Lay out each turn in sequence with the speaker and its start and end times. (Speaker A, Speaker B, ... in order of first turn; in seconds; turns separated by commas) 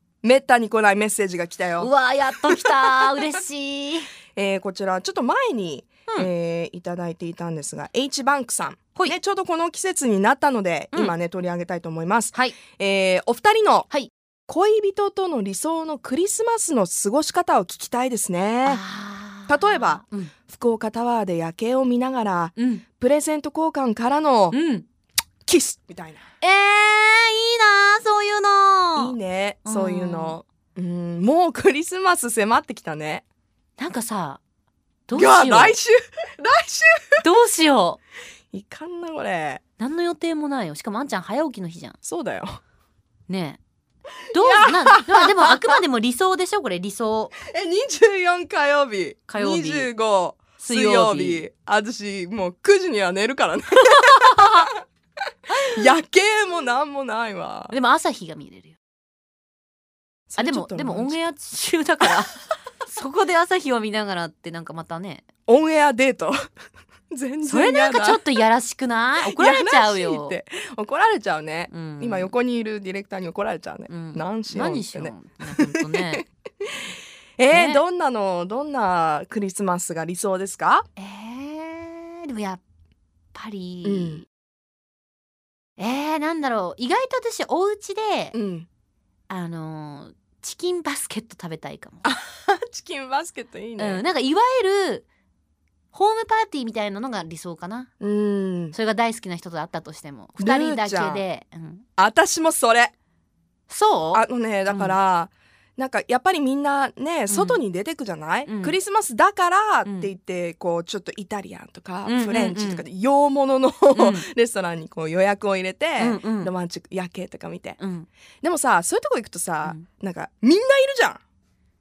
Speaker A: 0.2-1.9, Speaker B: 1.8-4.1, Speaker A: 2.4-2.9, Speaker A: 4.3-13.9, Speaker A: 14.5-18.8, Speaker B: 18.7-20.3, Speaker A: 19.5-24.6, Speaker B: 22.6-22.8, Speaker B: 24.5-24.8, Speaker A: 25.4-26.2, Speaker B: 26.4-29.1, Speaker A: 28.9-33.2, Speaker B: 29.6-30.4, Speaker B: 33.8-34.4, Speaker B: 35.1-35.8, Speaker A: 35.1-37.2, Speaker B: 37.2-38.0, Speaker A: 38.5-39.6, Speaker B: 39.8-42.0, Speaker A: 42.0-42.6, Speaker B: 43.3-43.6, Speaker A: 44.3-45.8, Speaker B: 44.3-47.3, Speaker A: 47.4-54.7, Speaker B: 49.3-49.9, Speaker B: 50.6-51.4, Speaker A: 55.7-57.7, Speaker B: 57.7-58.7, Speaker A: 60.3-61.2, Speaker B: 60.5-65.2, Speaker A: 65.5-66.4, Speaker A: 67.1-68.2, Speaker B: 67.5-70.3, Speaker A: 69.2-76.8, Speaker B: 71.7-72.3, Speaker B: 73.9-76.2, Speaker A: 77.4-80.9, Speaker B: 77.5-77.8, Speaker B: 81.0-82.6, Speaker B: 83.3-84.2, Speaker A: 83.8-84.2, Speaker B: 85.8-88.3, Speaker A: 88.3-88.7, Speaker B: 89.3-92.0, Speaker A: 92.0-94.0, Speaker B: 93.8-95.0, Speaker B: 95.9-97.9, Speaker A: 98.0-98.7, Speaker B: 98.7-101.8, Speaker A: 100.4-101.2, Speaker A: 102.0-102.9, Speaker B: 103.7-104.2, Speaker A: 104.1-117.8, Speaker B: 108.5-108.8, Speaker B: 112.0-112.8, Speaker B: 113.9-114.2, Speaker B: 116.0-116.5, Speaker B: 117.8-118.0, Speaker A: 118.4-121.2